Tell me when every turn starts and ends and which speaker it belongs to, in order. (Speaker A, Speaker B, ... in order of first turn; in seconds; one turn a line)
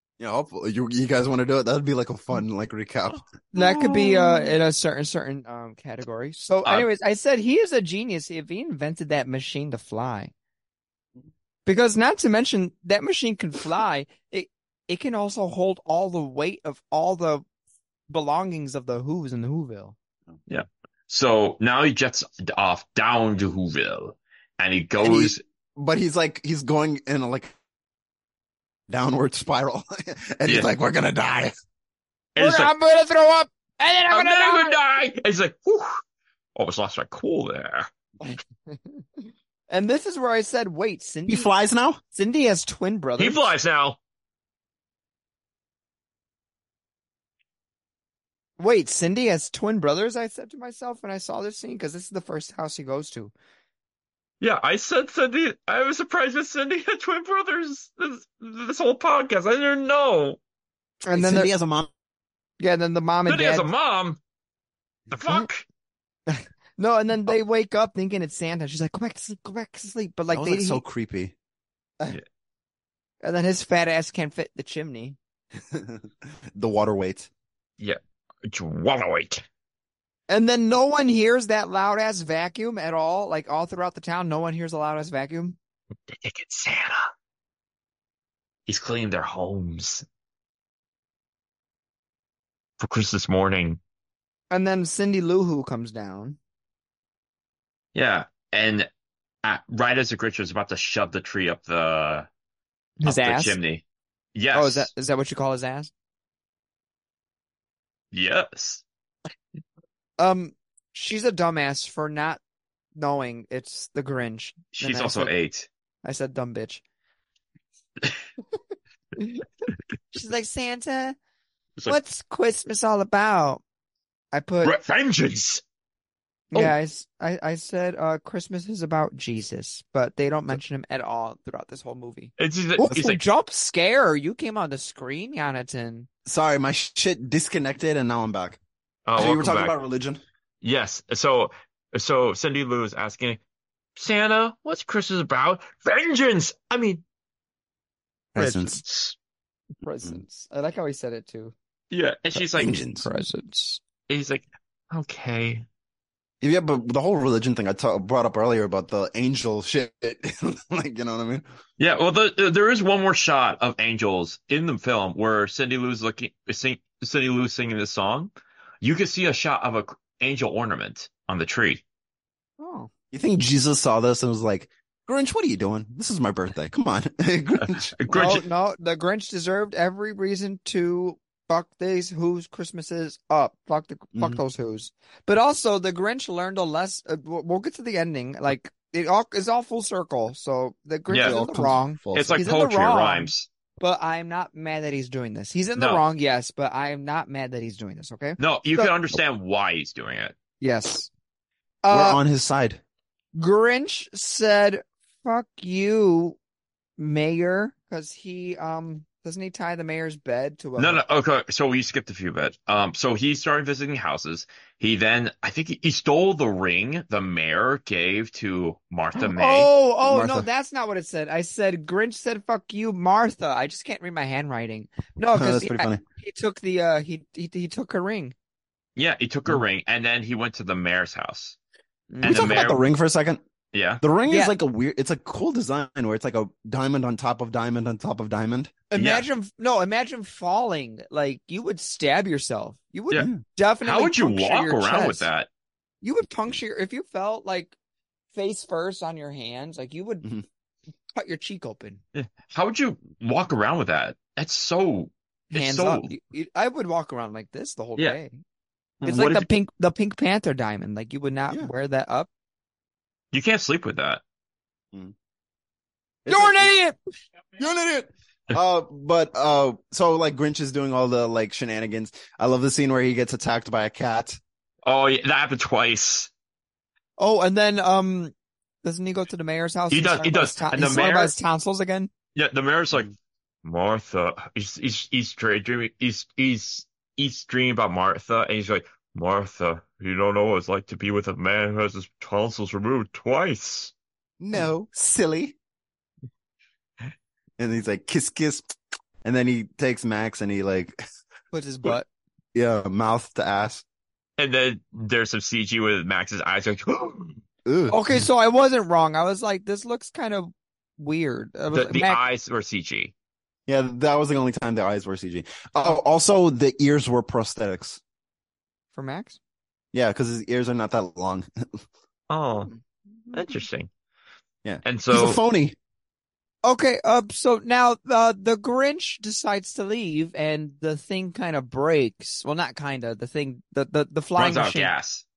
Speaker A: 0.2-3.2
Speaker B: 3.5-10.3
Speaker C: 3.5-4.5
Speaker B: 11.7-17.4
Speaker B: 18.1-19.9
Speaker C: 20.5-25.4
Speaker A: 25.0-27.5
Speaker A: 28.9-31.5
Speaker C: 30.4-30.7
Speaker C: 32.3-32.7
Speaker B: 32.4-34.8
Speaker C: 34.1-36.0
Speaker C: 36.5-37.9
Speaker B: 38.3-39.0
Speaker B: 39.7-41.5
Speaker A: 41.3-42.0
Speaker B: 42.1-43.5
Speaker C: 43.2-44.0
Speaker B: 48.6-53.3
Speaker C: 54.4-60.4
Speaker B: 61.0-61.5
Speaker A: 61.1-61.9
Speaker B: 62.6-63.7
Speaker C: 63.2-64.2
Speaker C: 65.1-65.6
Speaker B: 66.3-70.8
Speaker A: 70.3-71.3
Speaker B: 73.2-75.2
Speaker A: 75.7-77.3
Speaker C: 77.8-79.4
Speaker B: 80.3-85.6
Speaker C: 86.1-87.1
Speaker C: 88.7-90.0
Speaker C: 92.8-93.8
Speaker B: 94.5-96.4
Speaker C: 97.9-98.9
Speaker C: 99.4-102.3
Speaker B: 103.0-103.6
Speaker C: 103.0-103.8
Speaker C: 104.3-104.9
Speaker B: 104.5-105.9
Speaker C: 108.1-108.8
Speaker B: 110.2-112.4
Speaker B: 112.9-115.3
Speaker C: 114.8-115.7
Speaker B: 116.0-116.8
Speaker B: 120.1-121.2
Speaker B: 121.8-123.6
Speaker B: 124.3-124.7
Speaker C: 124.6-125.6
Speaker B: 126.5-136.1
Speaker C: 132.4-133.2
Speaker A: 136.2-138.6
Speaker C: 139.1-139.7
Speaker A: 139.1-140.2
Speaker C: 140.6-143.4
Speaker C: 143.9-147.0
Speaker A: 148.3-148.8
Speaker B: 148.4-148.8
Speaker C: 148.7-149.1
Speaker B: 149.8-151.5
Speaker C: 151.9-152.8
Speaker A: 152.5-153.1
Speaker B: 152.9-153.8
Speaker C: 154.1-155.7
Speaker A: 156.4-161.4
Speaker C: 161.8-168.3
Speaker C: 168.8-171.8
Speaker B: 172.6-172.9
Speaker A: 173.1-178.3
Speaker C: 178.0-178.4
Speaker B: 178.1-198.9
Speaker A: 184.1-184.4
Speaker C: 191.1-191.4
Speaker A: 191.2-192.4
Speaker C: 192.1-193.5
Speaker C: 195.8-196.0
Speaker C: 198.4-200.3
Speaker B: 200.6-201.1
Speaker B: 201.8-202.2
Speaker A: 201.9-202.8
Speaker B: 203.3-206.4
Speaker B: 207.0-211.0
Speaker C: 210.8-219.7
Speaker B: 219.1-228.3
Speaker A: 220.0-220.5
Speaker A: 225.3-226.0
Speaker C: 228.9-231.6
Speaker B: 232.1-232.8
Speaker C: 232.2-232.8
Speaker A: 232.2-233.4
Speaker C: 233.7-234.0
Speaker A: 234.0-238.8
Speaker B: 234.3-234.5
Speaker B: 238.9-245.3
Speaker C: 239.0-239.3
Speaker A: 243.1-243.4
Speaker C: 243.8-245.5
Speaker B: 246.0-247.7
Speaker B: 248.3-250.3
Speaker B: 251.1-252.0
Speaker C: 252.1-256.1
Speaker B: 255.5-258.4
Speaker C: 259.0-259.5
Speaker B: 259.0-262.3
Speaker C: 263.3-264.2
Speaker A: 266.2-266.7
Speaker B: 266.3-266.9
Speaker A: 267.6-274.4
Speaker C: 274.8-276.3
Speaker B: 277.2-282.1
Speaker C: 279.9-281.3
Speaker C: 282.3-283.1
Speaker C: 283.6-293.9
Speaker A: 294.4-295.6
Speaker A: 297.6-298.7
Speaker A: 299.2-301.0
Speaker B: 301.5-302.1
Speaker A: 302.5-303.8
Speaker C: 304.4-307.4
Speaker A: 307.6-308.2
Speaker B: 307.9-312.2
Speaker C: 311.7-313.1
Speaker A: 313.7-318.0
Speaker B: 318.9-319.4
Speaker A: 319.9-321.8
Speaker C: 322.3-322.7
Speaker C: 323.3-323.9
Speaker A: 324.6-325.8
Speaker C: 324.8-325.4
Speaker B: 326.6-334.9
Speaker C: 334.4-335.2